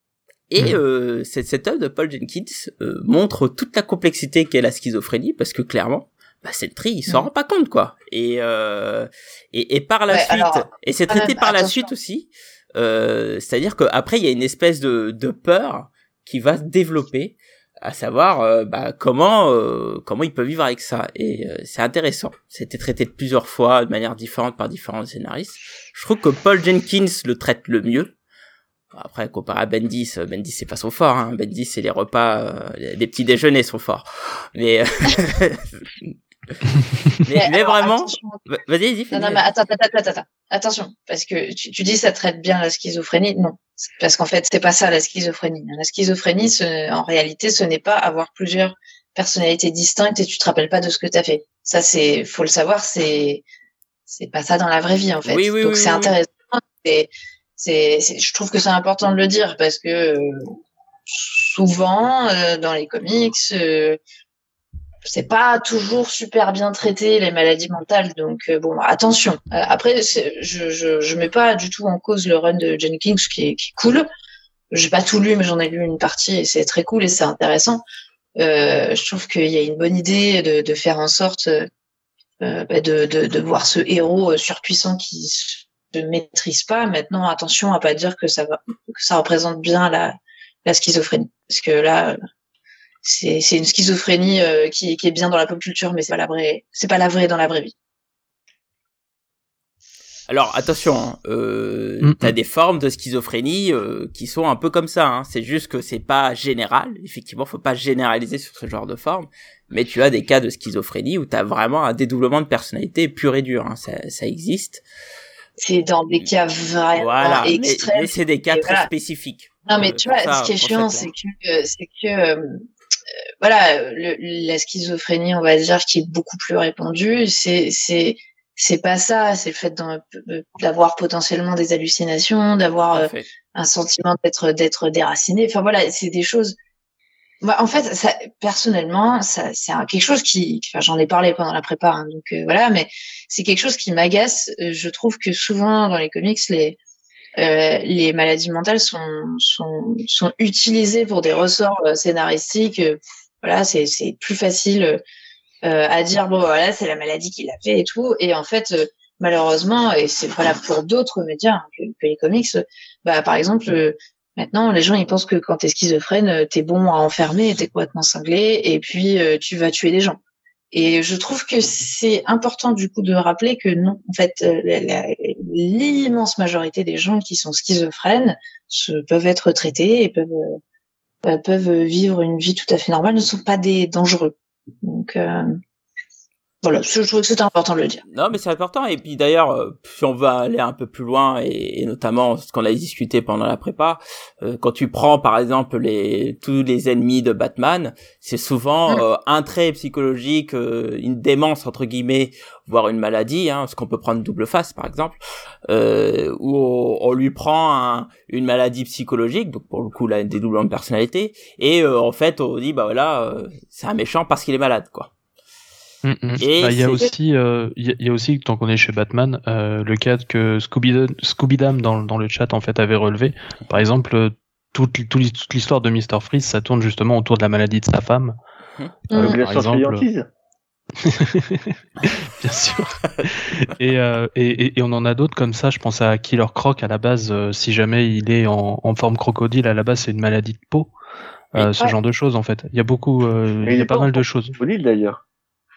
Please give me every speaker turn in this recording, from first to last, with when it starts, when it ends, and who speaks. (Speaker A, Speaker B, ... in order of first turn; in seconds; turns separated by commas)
Speaker A: 0.5-28.1, Speaker B: 10.1-11.9, Speaker A: 28.9-36.1, Speaker A: 37.2-39.4, Speaker B: 37.3-38.5, Speaker B: 39.1-53.4, Speaker B: 54.1-60.5, Speaker A: 55.3-56.1, Speaker B: 61.1-64.0, Speaker B: 65.0-74.1, Speaker B: 74.7-77.8, Speaker B: 78.4-81.7, Speaker B: 82.4-92.2, Speaker B: 93.0-97.7, Speaker A: 100.3-114.8, Speaker C: 102.0-102.3, Speaker B: 115.6-118.9, Speaker A: 117.0-121.1, Speaker B: 119.7-122.6, Speaker B: 123.4-136.6, Speaker A: 132.9-133.3, Speaker B: 137.4-146.8, Speaker B: 147.4-155.0, Speaker B: 155.6-170.2, Speaker B: 170.7-180.6, Speaker B: 181.3-185.6, Speaker B: 186.6-188.0, Speaker A: 188.1-215.1, Speaker C: 216.0-228.4, Speaker A: 216.4-217.1, Speaker B: 229.1-229.4, Speaker C: 229.1-230.1, Speaker D: 229.2-230.3, Speaker C: 231.0-240.9, Speaker C: 241.6-244.6, Speaker D: 243.7-245.2